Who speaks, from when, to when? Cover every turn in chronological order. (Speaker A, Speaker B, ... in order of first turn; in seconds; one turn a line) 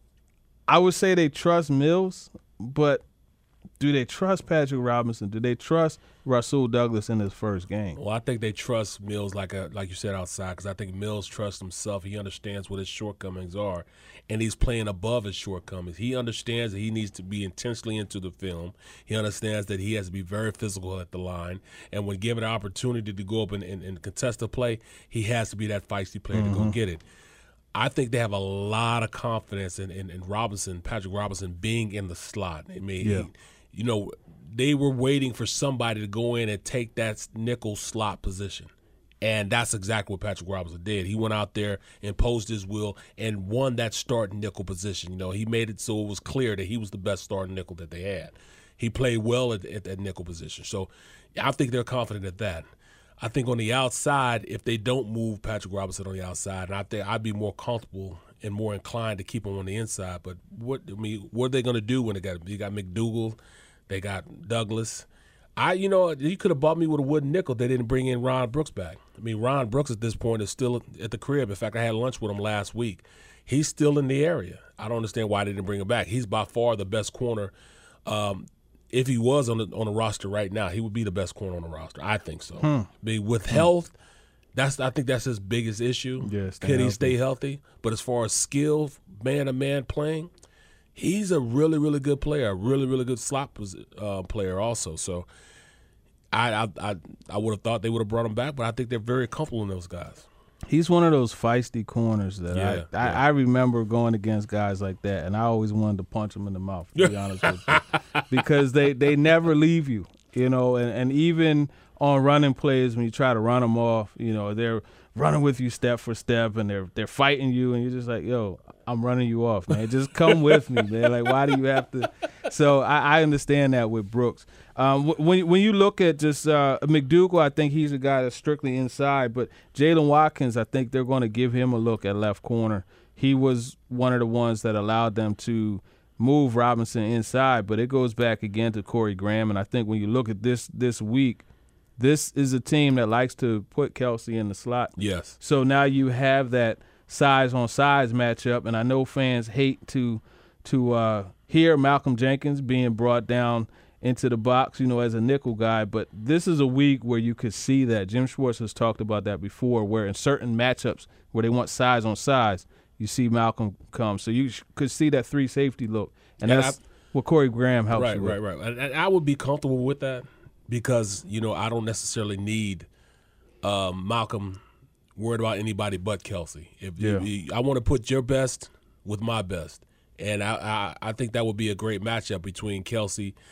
Speaker A: 0.7-3.0
Speaker A: 3.8-8.0
Speaker B: 8.0-27.0
Speaker A: 26.3-26.8
Speaker B: 27.7-38.7
Speaker A: 33.0-33.3
Speaker B: 39.2-52.7
Speaker B: 53.2-63.4
Speaker B: 63.9-77.5
Speaker B: 78.0-83.9
Speaker A: 82.6-82.9
Speaker B: 84.5-90.3
Speaker A: 86.2-87.1
Speaker B: 90.9-95.3
Speaker B: 96.3-100.2
Speaker A: 100.7-107.8
Speaker B: 102.5-103.2
Speaker B: 107.0-108.2
Speaker A: 108.3-141.4
Speaker A: 142.0-168.4
Speaker B: 145.0-145.4
Speaker B: 166.4-166.8
Speaker B: 167.9-172.9
Speaker B: 173.6-174.6
Speaker B: 175.2-183.4
Speaker A: 177.0-177.2